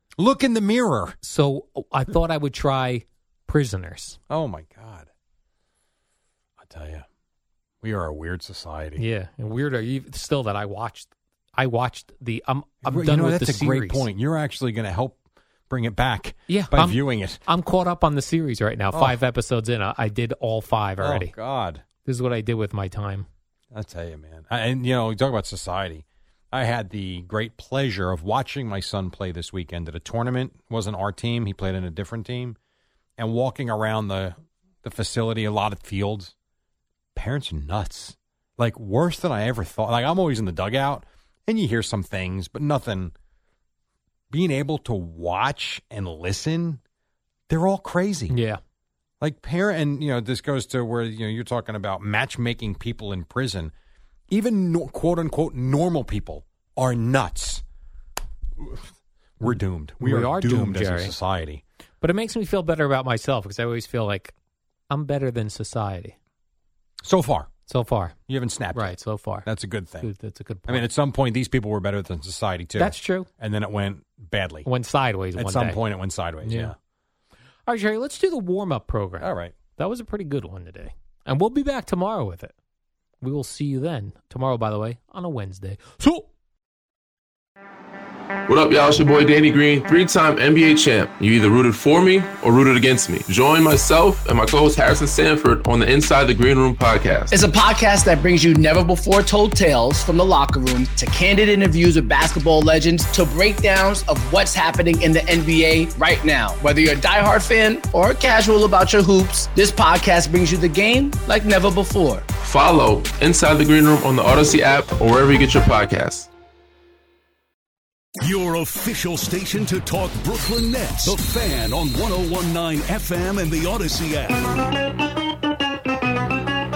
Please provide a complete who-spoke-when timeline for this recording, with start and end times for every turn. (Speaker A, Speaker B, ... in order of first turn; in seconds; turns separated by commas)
Speaker A: 0.2-1.2, Speaker B: 1.2-4.2, Speaker A: 4.3-5.1, Speaker A: 6.6-7.1, Speaker A: 7.8-9.0, Speaker B: 9.0-14.1, Speaker A: 12.8-17.4, Speaker B: 16.5-21.3, Speaker A: 18.9-19.2, Speaker A: 21.0-21.8, Speaker B: 22.1-23.3, Speaker A: 23.7-32.6, Speaker A: 33.2-36.3, Speaker A: 37.1-43.1, Speaker A: 44.3-46.8, Speaker A: 47.5-48.4, Speaker B: 48.3-48.6, Speaker A: 49.2-53.7, Speaker A: 54.3-57.6, Speaker A: 58.6-58.8, Speaker A: 59.4-61.6, Speaker B: 59.5-61.1, Speaker B: 62.0-64.3, Speaker B: 64.9-66.2, Speaker A: 67.0-67.5, Speaker B: 67.7-68.2, Speaker A: 68.3-70.1, Speaker B: 68.7-69.5, Speaker B: 70.0-70.9, Speaker A: 70.7-74.7, Speaker B: 72.8-73.3, Speaker B: 74.7-75.8, Speaker A: 75.4-76.8, Speaker B: 76.4-76.7, Speaker B: 77.7-82.5, Speaker A: 79.2-79.5, Speaker B: 83.2-86.3, Speaker C: 88.5-97.4, Speaker D: 97.3-112.3, Speaker C: 112.4-116.3, Speaker E: 118.2-124.5